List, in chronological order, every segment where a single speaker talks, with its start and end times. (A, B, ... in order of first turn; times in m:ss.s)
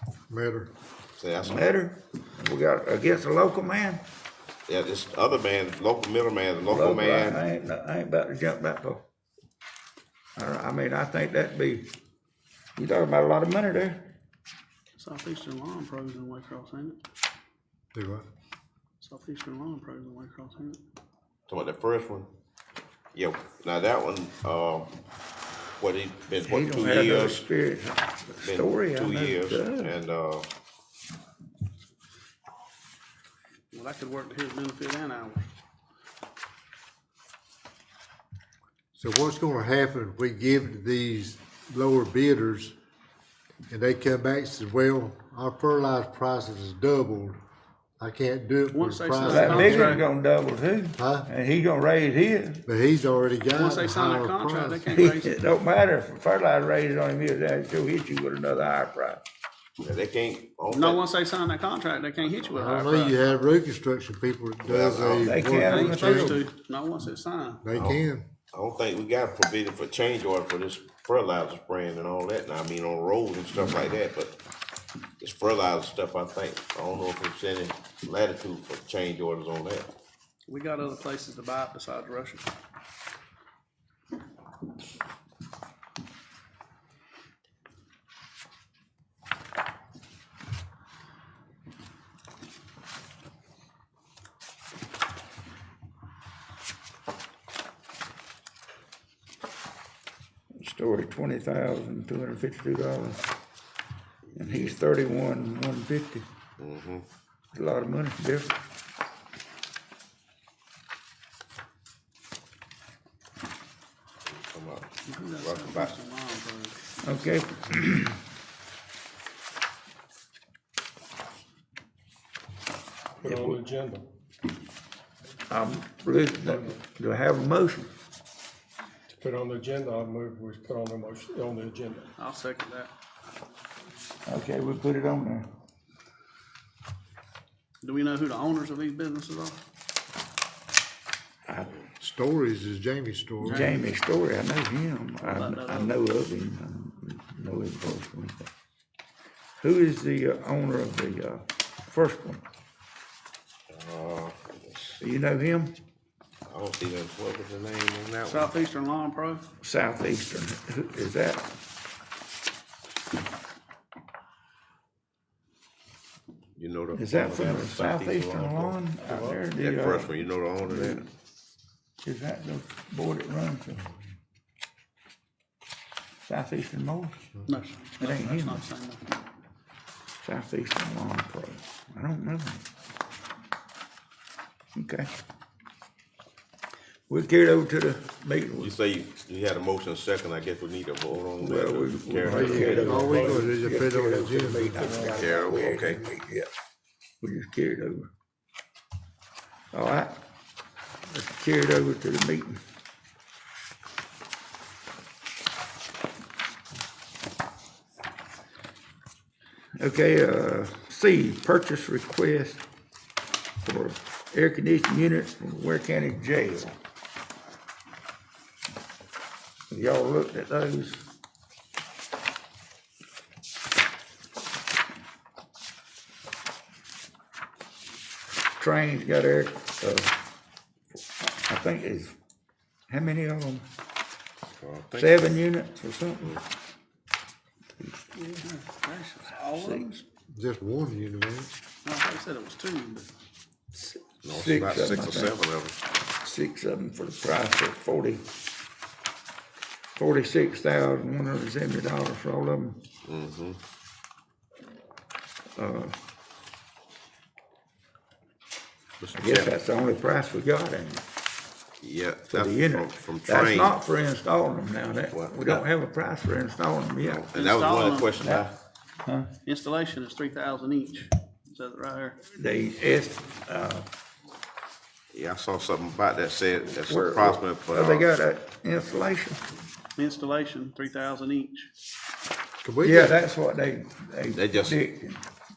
0:00.3-0:00.7 A
0:01.2-0:01.7 B
0:01.4-0:04.0 C
0:04.7-0:07.4 B
0:06.7-0:09.0 C
0:10.4-0:11.9 C
0:12.8-0:14.1 C
0:15.0-0:17.0 D
0:17.9-0:18.3 A
0:19.0-0:20.8 D
0:21.5-0:22.3 B
0:23.1-0:24.9 B
0:25.8-0:27.5 B
0:26.4-0:30.0 C
0:28.4-0:30.5 B
0:33.7-0:35.5 D
0:38.9-0:42.8 A
0:43.7-0:47.4 A
0:48.0-0:50.0 A
0:48.7-0:50.1 D
0:49.3-0:52.6 C
0:51.0-0:51.3 A
0:52.7-0:54.8 A
0:53.5-0:55.3 D
0:54.9-0:59.2 C
0:59.8-1:01.1 B
1:00.7-1:03.2 D
1:02.5-1:06.4 A
1:04.6-1:05.4 B
1:05.2-1:06.4 C
1:05.4-1:07.6 D
1:07.6-1:08.3 A
1:07.7-1:08.0 B
1:08.5-1:14.4 B
1:15.2-1:19.9 B
1:20.5-1:22.5 D
1:40.6-1:43.2 C
1:44.3-1:46.2 C
1:46.6-1:47.0 B
1:47.5-1:48.6 C
1:54.3-1:55.9 B
1:55.0-1:57.0 D
1:57.0-1:58.2 C
2:03.2-2:04.0 E
2:03.2-2:03.6 C
2:05.5-2:07.9 C
2:09.1-2:12.1 E
2:12.2-2:12.9 D
2:14.3-2:15.4 C
2:17.8-2:19.6 D
2:21.5-2:21.9 C
2:22.0-2:23.7 A
2:23.4-2:23.8 D
2:23.4-2:28.5 C
2:25.2-2:26.0 D
2:29.6-2:32.4 C
2:33.7-2:35.0 B
2:35.0-2:35.7 C
2:36.5-2:38.6 B
2:38.2-2:39.4 D
2:39.6-2:41.5 C
2:46.6-2:48.8 B
2:46.9-2:51.0 C
2:49.1-2:49.4 E
2:49.6-2:51.0 B
2:52.0-2:53.9 C
2:56.3-2:57.2 C
2:57.5-2:59.2 D
2:58.0-2:58.6 C
3:00.2-3:02.6 C
3:04.7-3:05.1 C
3:07.1-3:08.7 C
3:08.6-3:13.0 B
3:11.4-3:16.5 C
3:12.2-3:15.1 A
3:12.4-3:13.5 E
3:14.7-3:15.3 E
3:15.2-3:16.0 B
3:17.2-3:18.1 C
3:19.7-3:20.1 C
3:21.1-3:22.6 C
3:29.8-3:32.6 C
3:33.6-3:36.8 C
3:39.7-3:41.0 C
3:48.6-3:50.2 C
3:50.9-3:52.1 C
3:52.9-3:53.6 C
3:54.6-3:55.4 B
3:54.9-3:56.4 C
3:57.8-3:58.1 C
3:58.1-3:59.9 D
3:59.4-4:00.0 C
4:00.3-4:01.5 A
4:01.8-4:03.1 D
4:03.7-4:05.4 C
4:04.2-4:05.8 B
4:06.2-4:08.2 C
4:10.0-4:12.8 C
4:13.0-4:13.6 B
4:15.6-4:16.0 C
4:19.0-4:19.6 B
4:19.1-4:21.0 C
4:21.8-4:23.8 B
4:22.3-4:27.3 C
4:25.1-4:25.7 B
4:27.0-4:28.5 B
4:27.3-4:28.2 D
4:29.0-4:29.3 C
4:29.4-4:32.2 D
4:32.3-4:33.8 C
4:35.1-4:38.1 B
4:36.8-4:39.4 C
4:40.0-4:41.7 D
4:42.6-4:43.2 A
4:42.8-4:45.2 C
4:44.3-4:44.8 B